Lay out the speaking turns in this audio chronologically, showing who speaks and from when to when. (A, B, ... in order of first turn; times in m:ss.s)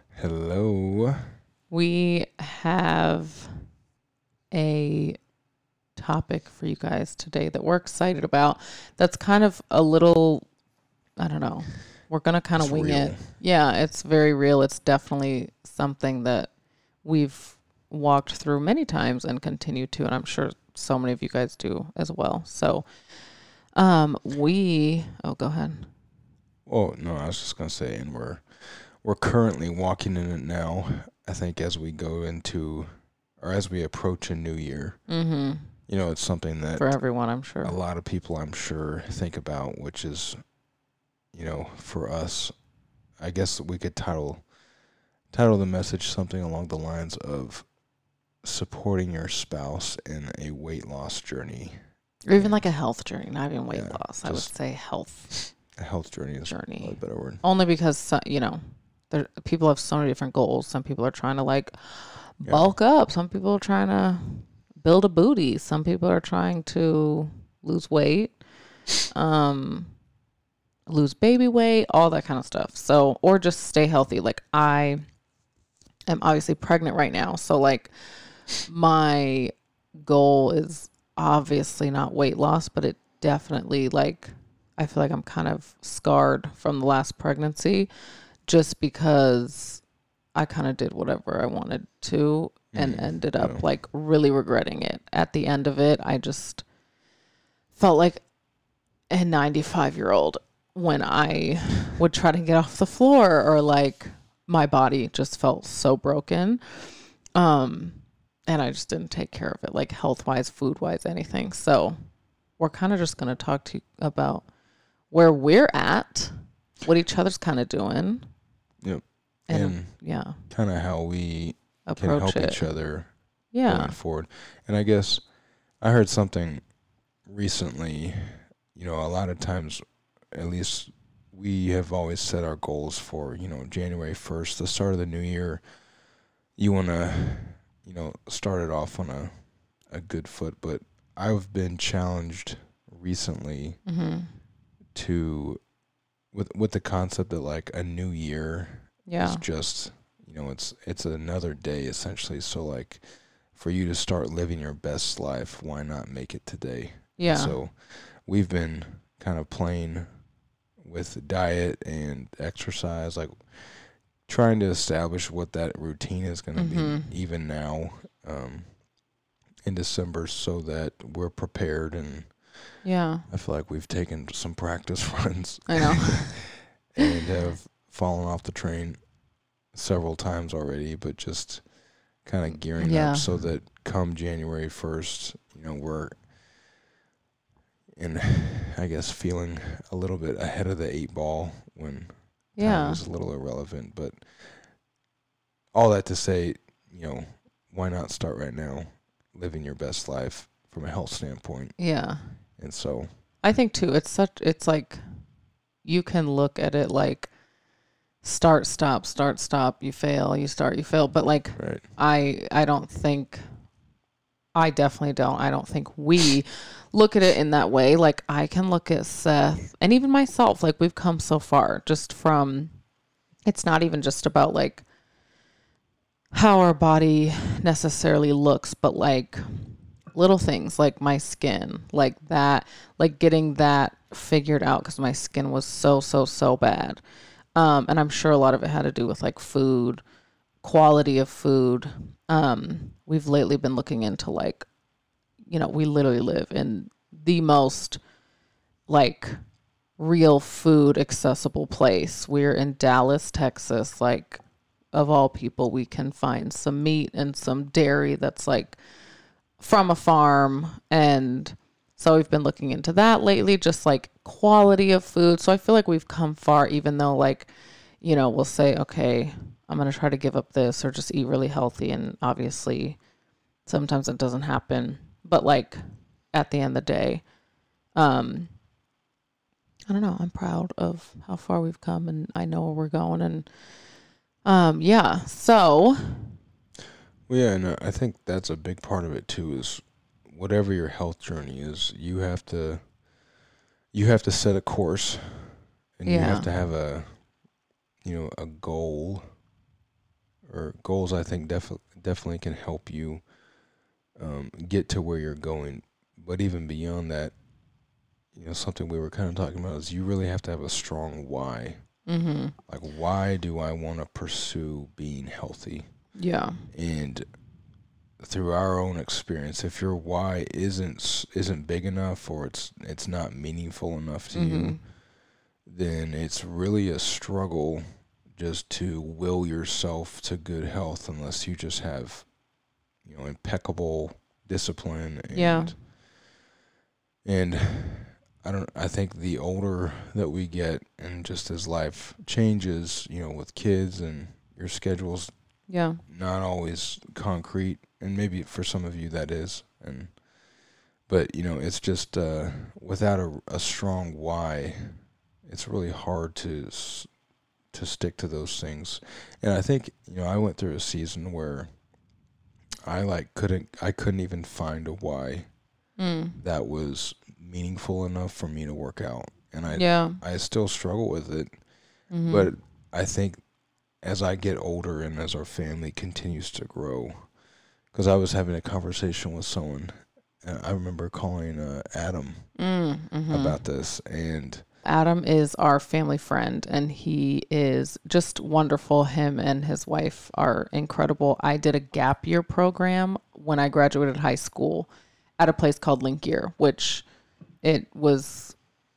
0:00.1-0:01.3 A
0:01.7-0:03.5 B
0:04.5-0:05.2 B
0:06.0-0:10.5 B
0:11.2-0:16.5 B
0:12.6-0:13.3 A
0:17.0-0:23.2 B
0:23.8-0:25.9 B
0:26.7-0:35.1 A
0:35.1-0:35.7 B
0:35.9-0:40.5 A
0:36.8-0:37.8 B
0:41.3-0:42.5 A
0:43.2-0:44.5 A
0:45.3-0:47.7 A
0:48.4-0:52.6 A
0:52.2-0:55.4 B
0:53.7-0:54.6 A
0:55.8-0:57.4 A
0:56.5-1:08.4 B
1:02.4-1:02.7 A
1:09.1-1:10.0 B
1:10.9-1:15.0 B
1:16.1-1:27.9 B
1:28.5-1:29.8 B
1:30.4-1:36.6 B
1:32.7-1:33.6 A
1:37.8-1:38.2 B
1:39.1-1:52.0 B
1:52.6-1:54.5 B
1:55.1-1:58.3 B
1:58.8-2:06.7 A
1:59.5-2:00.4 B
2:01.8-2:02.7 B
2:03.5-2:04.0 B
2:07.2-2:15.8 A
2:16.6-2:23.8 A
2:23.8-2:24.4 B
2:24.9-2:25.6 A
2:26.3-2:40.1 A
2:29.1-2:29.4 B
2:37.2-2:37.6 B
2:40.8-2:48.9 A
2:46.6-2:47.1 B
2:49.6-2:56.4 A
2:52.8-2:53.3 B
2:55.7-2:56.6 B
2:57.0-2:59.1 A
2:59.7-3:06.3 A
3:02.8-3:03.4 B
3:08.0-3:14.8 A
3:12.6-3:13.0 B
3:15.7-3:21.9 A
3:21.8-3:22.4 B
3:22.6-3:23.1 A
3:23.4-3:25.0 B
3:25.8-3:27.3 B
3:28.2-3:33.4 B
3:31.6-3:31.9 A
3:34.5-3:42.8 B
3:43.5-3:44.8 B
3:46.3-3:57.0 B
3:57.6-4:00.0 B
4:00.6-4:04.7 B
4:05.5-4:08.0 B
4:08.9-4:09.4 B
4:10.0-4:14.4 B
4:14.9-4:18.8 B
4:19.6-4:33.0 B
4:33.7-4:35.8 B
4:36.3-4:37.2 B
4:38.0-4:38.5 B
4:39.9-4:43.5 B
4:44.4-4:46.4 B
4:47.3-4:53.0 A
4:53.9-4:57.3 A
4:56.0-4:56.5 B
4:58.0-4:59.4 A
5:00.4-5:03.3 A
5:04.2-5:07.4 A
5:08.3-5:12.0 A
5:12.1-5:12.6 B
5:12.7-5:16.1 A
5:16.2-5:16.7 B
5:16.7-5:17.3 A
5:18.2-5:24.9 A
5:24.3-5:24.8 B
5:25.6-5:32.4 A
5:33.0-5:35.9 A
5:35.3-5:35.8 B
5:37.2-5:50.2 A
5:45.7-5:46.0 B
5:51.0-5:57.1 A
5:57.7-6:01.8 A
6:02.8-6:05.5 A
6:06.0-6:06.4 B
6:06.4-6:13.4 A
6:09.7-6:10.2 B
6:12.1-6:12.5 B
6:14.0-6:17.4 A
6:17.9-6:22.6 A
6:22.6-6:23.6 B
6:23.3-6:24.6 A
6:24.8-6:37.0 B
6:37.6-6:38.6 B